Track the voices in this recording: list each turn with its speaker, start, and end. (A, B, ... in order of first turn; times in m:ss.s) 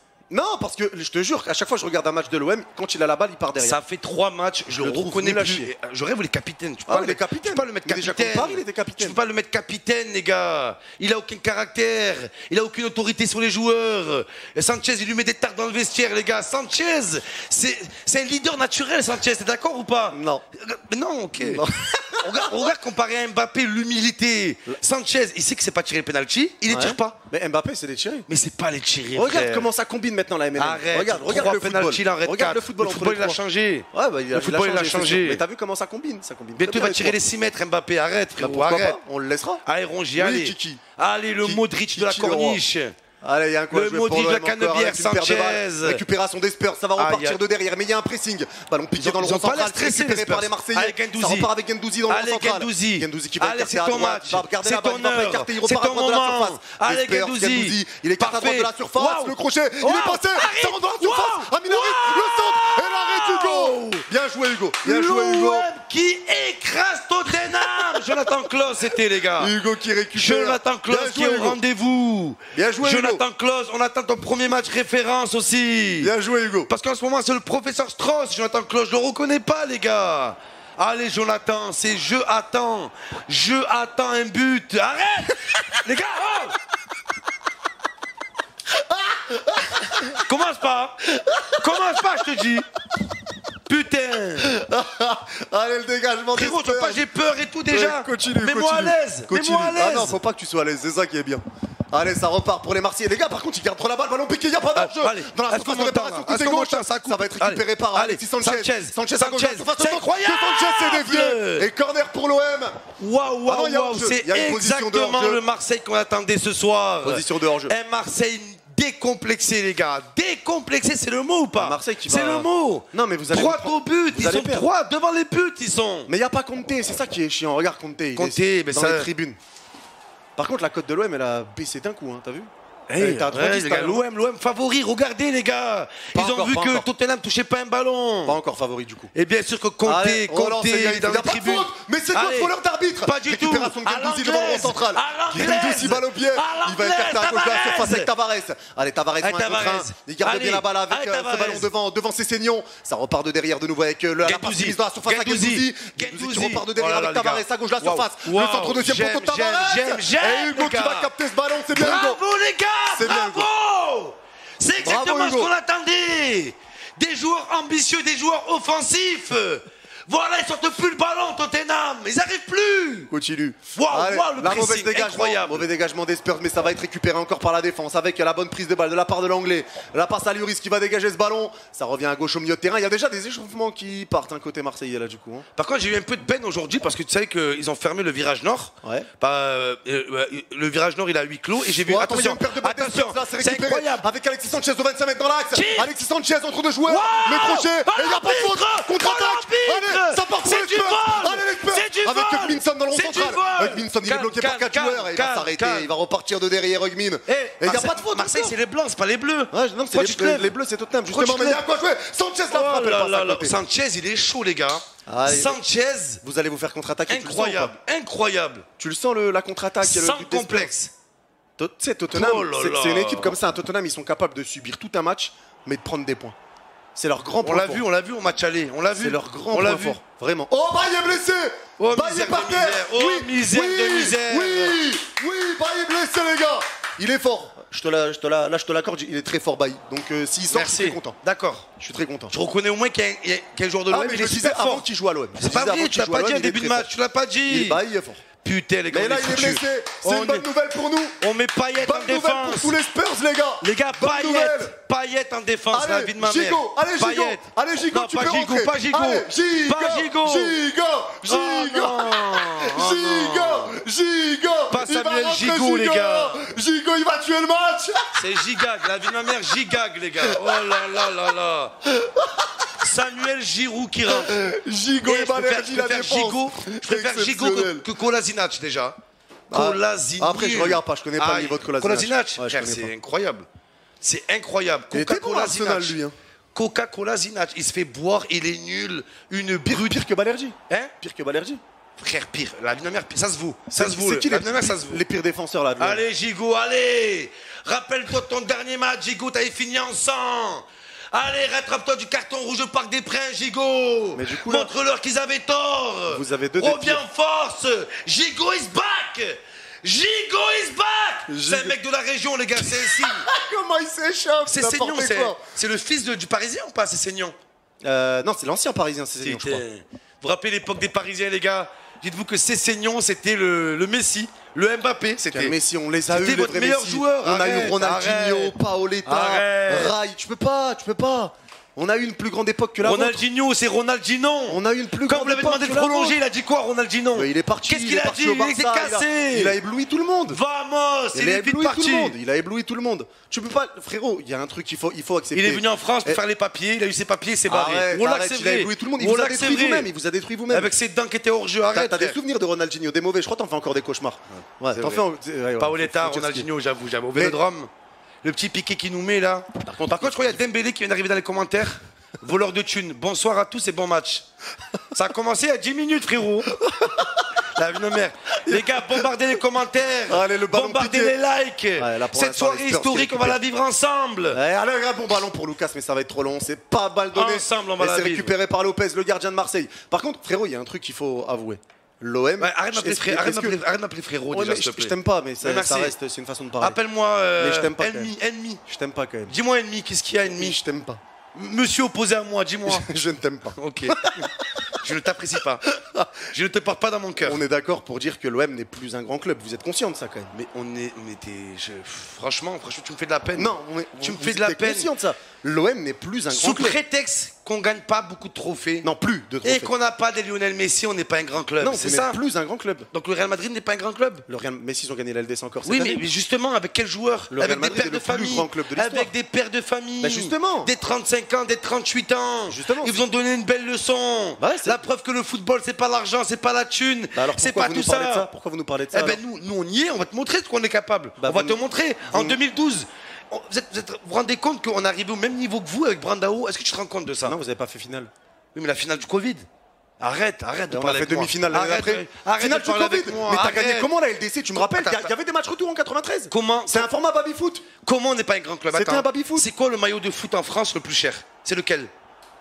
0:00.3-0:03.8 A
0:03.6-0:21.6 B
0:04.7-0:05.7 A
0:06.9-0:09.2 A
0:20.1-0:20.4 A
0:21.4-0:22.4 A
0:22.2-0:27.2 B
0:26.7-0:28.3 A
0:28.3-0:29.7 B
0:29.2-0:33.4 A
0:30.6-0:35.4 B
0:33.9-0:37.2 A
0:36.6-0:39.0 B
0:38.4-0:39.6 A
0:39.6-0:43.0 B
0:40.2-0:40.8 A
0:41.4-0:42.6 A
0:43.2-1:05.7 A
0:43.7-0:46.0 B
0:47.0-0:47.4 B
0:49.0-0:51.5 B
0:52.1-1:04.0 B
1:04.8-1:09.5 B
1:07.3-1:08.4 A
1:09.4-1:11.6 A
1:10.2-1:16.1 B
1:12.5-1:13.2 A
1:16.0-1:16.7 A
1:16.7-1:26.6 B
1:28.8-1:30.2 A
1:30.2-1:31.0 B
1:31.1-1:32.0 A
1:31.6-1:32.7 B
1:33.7-1:34.5 B
1:34.4-1:37.1 A
1:36.3-1:40.2 B
1:37.7-1:52.8 A
1:44.8-1:51.7 B
1:53.0-2:06.1 B
1:53.4-1:55.4 A
1:57.0-1:57.7 A
2:01.6-2:04.7 A
2:06.1-2:09.4 A
2:08.2-2:09.1 B
2:10.4-2:14.0 A
2:12.9-2:18.4 B
2:16.1-2:16.9 A
2:18.3-2:19.1 A
2:19.1-2:28.1 B
2:19.8-2:42.2 A
2:29.2-2:31.7 B
2:34.2-2:41.1 B
2:41.7-2:53.1 B
2:42.9-2:43.5 A
2:44.8-2:45.5 A
2:53.1-3:05.5 A
2:53.7-2:55.7 B
3:05.6-3:14.5 B
3:11.7-3:28.6 A
3:15.5-3:16.0 B
3:16.8-3:25.9 B
3:27.3-3:30.5 B
3:29.5-3:33.6 A
3:31.1-3:31.7 B
3:32.5-3:36.2 B
3:35.1-3:35.6 A
3:36.2-3:37.8 A
3:37.1-3:38.6 B
3:38.8-3:40.7 A
3:39.8-3:40.9 B
3:41.6-3:46.4 A
3:42.1-3:43.4 B
3:47.0-3:47.8 A
3:47.4-3:50.0 B
3:48.9-4:01.2 A
3:51.8-3:54.8 B
4:00.5-4:01.7 B
4:01.8-4:02.4 A
4:02.3-4:07.8 B
4:03.9-4:06.9 A
4:07.5-4:08.2 A
4:08.4-4:10.5 B
4:08.9-4:11.2 A
4:11.2-4:12.8 B
4:11.8-4:14.8 A
4:13.6-4:20.6 B
4:15.7-4:28.1 A
4:21.2-4:23.7 B
4:24.7-4:26.4 B
4:28.1-4:31.8 B
4:30.2-4:30.7 A
4:32.8-4:34.4 B
4:34.1-4:37.9 A
4:35.0-4:39.0 B
4:39.5-4:42.9 A
4:39.5-4:43.5 B
4:44.0-4:46.0 B
4:44.9-4:46.1 A
4:46.5-4:50.0 B
4:49.7-4:51.6 A
4:52.0-4:55.0 B
4:53.7-4:56.0 A
4:55.8-5:13.3 B
5:04.2-5:04.7 A
5:06.1-5:07.0 A
5:11.3-5:11.8 A
5:12.6-5:15.4 A
5:14.5-5:17.4 B
5:17.8-5:19.6 A
5:19.2-5:25.6 B
5:25.2-5:33.2 A
5:26.1-5:30.0 B
5:32.8-5:39.6 B
5:34.5-5:36.2 A
5:37.2-5:40.4 A
5:40.3-5:42.2 B
5:41.1-5:46.2 A
5:45.3-5:49.9 B
5:47.5-5:50.7 A
5:50.5-5:52.2 B
5:51.7-5:56.5 A
5:54.7-5:55.0 B
5:55.6-5:57.7 B
5:58.2-6:04.2 B
5:59.6-6:00.4 A
6:04.9-6:06.5 B
6:06.6-6:07.2 A
6:07.6-6:14.4 B
6:08.4-6:09.1 A
6:10.1-6:11.2 A
6:11.8-6:13.4 A
6:14.3-6:23.6 A
6:17.1-6:18.3 B
6:22.4-6:26.0 B
6:24.3-6:26.8 A
6:26.6-6:28.6 B
6:27.4-6:28.1 A
6:28.7-6:29.3 A
6:29.3-6:30.6 B
6:30.2-6:31.0 A
6:31.4-6:32.9 B
6:32.7-6:34.5 A
6:33.6-6:35.6 B
6:35.8-6:36.2 A
6:36.3-6:37.4 B
6:37.2-6:40.3 A
6:40.3-6:44.9 B
6:43.4-6:46.8 A
6:46.3-6:48.9 B
6:48.8-6:49.7 A
6:49.4-6:52.2 B
6:51.6-6:52.9 A
6:52.9-6:54.2 B
6:54.3-6:56.0 A
6:55.6-7:08.3 B
6:57.3-6:59.1 A
7:00.0-7:00.7 A
7:02.5-7:03.0 A
7:04.4-7:04.8 A
7:07.2-7:09.2 A
7:08.9-7:17.4 B
7:11.2-7:12.4 A
7:17.2-7:18.1 A
7:18.6-7:19.5 B
7:20.0-7:23.9 B
7:20.7-7:27.6 A
7:24.5-7:25.1 B
7:26.3-7:26.9 B
7:27.8-7:31.9 B
7:28.7-7:29.5 A